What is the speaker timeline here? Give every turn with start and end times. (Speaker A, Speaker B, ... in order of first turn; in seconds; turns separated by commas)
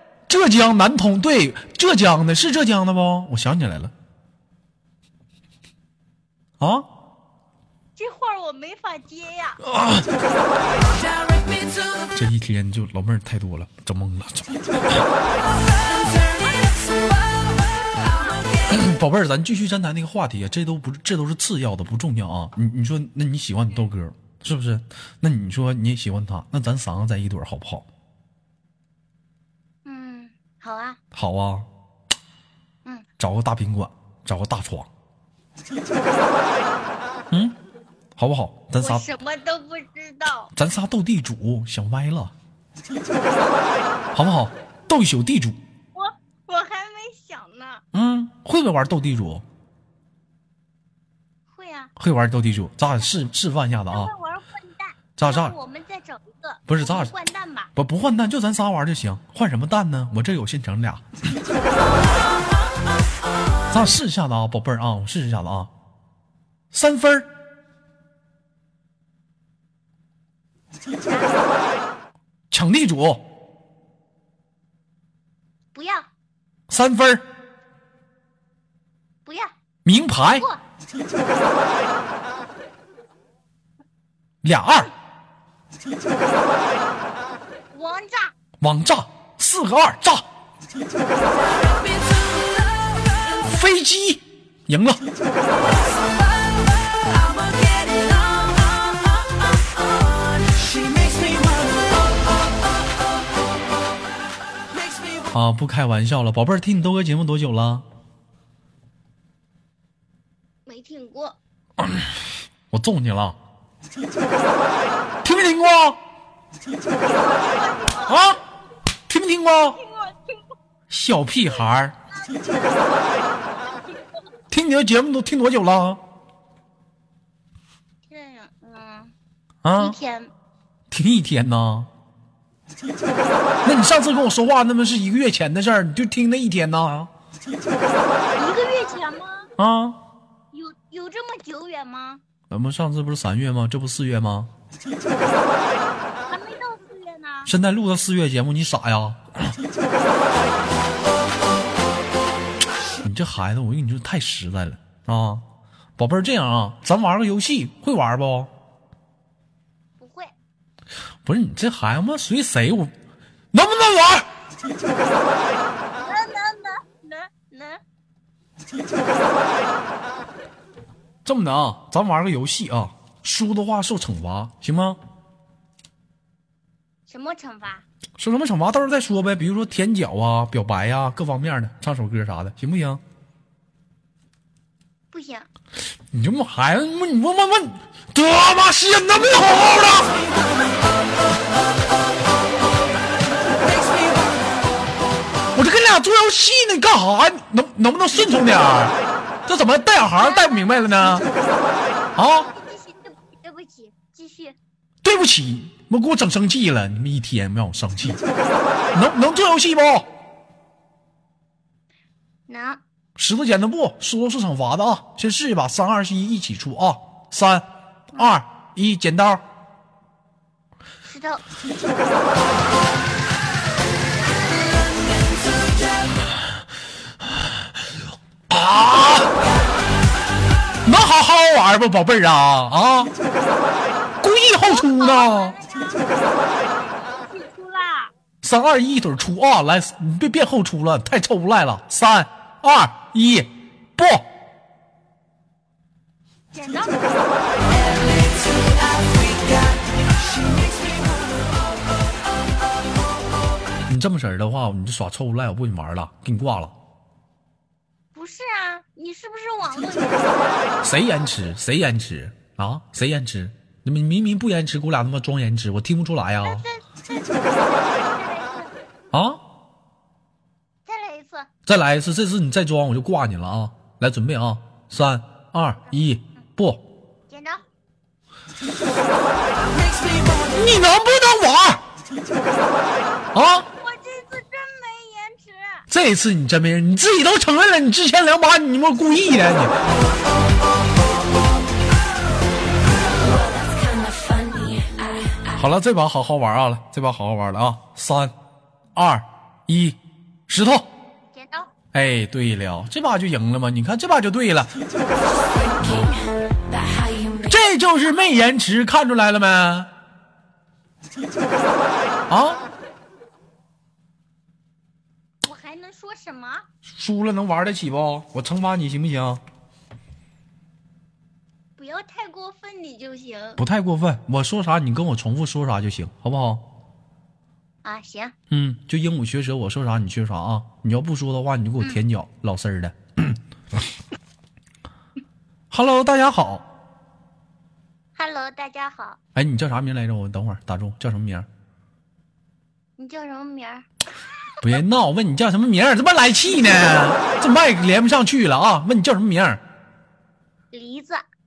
Speaker A: 0.3-3.9, Speaker A: 6.6-6.9, Speaker B: 8.0-9.6, Speaker A: 9.7-10.1, Speaker A: 12.1-14.6, Speaker B: 17.9-18.7, Speaker A: 18.7-27.9, Speaker B: 29.9-31.0, Speaker A: 31.1-31.7, Speaker A: 33.2-34.9, Speaker A: 37.3-37.6, Speaker A: 38.2-39.0, Speaker B: 38.8-40.5, Speaker A: 40.6-42.3, Speaker A: 44.1-45.6, Speaker B: 45.9-47.8, Speaker A: 47.9-49.4, Speaker B: 51.5-51.9, Speaker A: 52.0-54.1, Speaker B: 53.9-57.7, Speaker A: 55.2-55.5, Speaker A: 56.7-57.1, Speaker A: 57.8-61.0, Speaker A: 63.7-65.7, Speaker A: 66.7-67.3, Speaker B: 70.9-71.3, Speaker A: 72.5-73.2, Speaker B: 75.7-76.1, Speaker A: 76.7-77.2, Speaker B: 79.2-79.5, Speaker A: 79.8-80.5, Speaker A: 84.4-84.9, Speaker B: 87.7-88.3, Speaker A: 88.6-90.2, Speaker A: 93.4-95.0, Speaker A: 105.3-107.8, Speaker B: 110.7-111.4, Speaker A: 112.7-113.4, Speaker A: 115.2-116.0, Speaker B: 116.9-118.3, Speaker A: 118.1-118.4, Speaker A: 119.1-119.8, Speaker B: 119.6-120.5, Speaker A: 120.9-122.0, Speaker B: 121.5-124.2, Speaker A: 124.5-126.0, Speaker B: 128.1-129.1, Speaker A: 129.6-130.0, Speaker B: 129.8-130.3, Speaker A: 130.9-131.9, Speaker A: 133.7-137.1, Speaker B: 138.4-139.5, Speaker A: 139.6-140.0, Speaker B: 140.5-142.2, Speaker A: 142.5-144.5, Speaker B: 146.3-147.5, Speaker A: 147.5-149.2, Speaker A: 153.0-155.4, Speaker A: 156.0-158.5, Speaker B: 160.0-160.3, Speaker A: 161.2-162.9, Speaker A: 163.5-164.3, Speaker B: 166.0-167.8, Speaker A: 171.2-175.0, Speaker B: 177.1-177.8, Speaker A: 178.2-183.0, Speaker B: 185.1-185.5, Speaker A: 186.1-190.3, Speaker A: 195.6-199.0, Speaker A: 199.5-201.3, Speaker B: 200.2-201.3, Speaker A: 202.2-202.5, Speaker B: 202.5-204.6, Speaker A: 205.0-208.2, Speaker A: 208.9-210.1, Speaker B: 212.5-212.8, Speaker A: 213.2-219.4, Speaker B: 221.0-221.4, Speaker A: 228.5-229.4, Speaker A: 230.8-233.1, Speaker A: 234.2-235.6, Speaker B: 234.6-238.1, Speaker A: 238.4-244.3, Speaker B: 246.5-247.2, Speaker A: 253.9-256.7, Speaker B: 258.1-260.8, Speaker A: 260.8-266.7, Speaker B: 266.4-268.7, Speaker A: 269.1-269.4, Speaker B: 270.9-271.5, Speaker A: 271.7-276.8, Speaker B: 277.3-277.6, Speaker A: 280.5-281.8, Speaker A: 283.3-283.7, Speaker B: 283.8-285.9, Speaker A: 285.9-289.8, Speaker C: 293.2-295.4, Speaker A: 295.6-298.3, Speaker A: 298.9-300.9, Speaker B: 301.3-301.7, Speaker A: 301.9-304.7, Speaker C: 305.3-307.6, Speaker A: 307.5-309.9, Speaker A: 312.3-312.6, Speaker B: 315.4-316.7, Speaker A: 316.9-319.4, Speaker B: 321.8-323.6, Speaker A: 323.6-326.6, Speaker B: 327.8-328.4, Speaker A: 328.5-333.4, Speaker A: 335.7-336.6, Speaker B: 338.2-339.2, Speaker A: 339.4-341.5, Speaker B: 343.0-343.9, Speaker A: 344.6-349.6, Speaker B: 350.7-351.2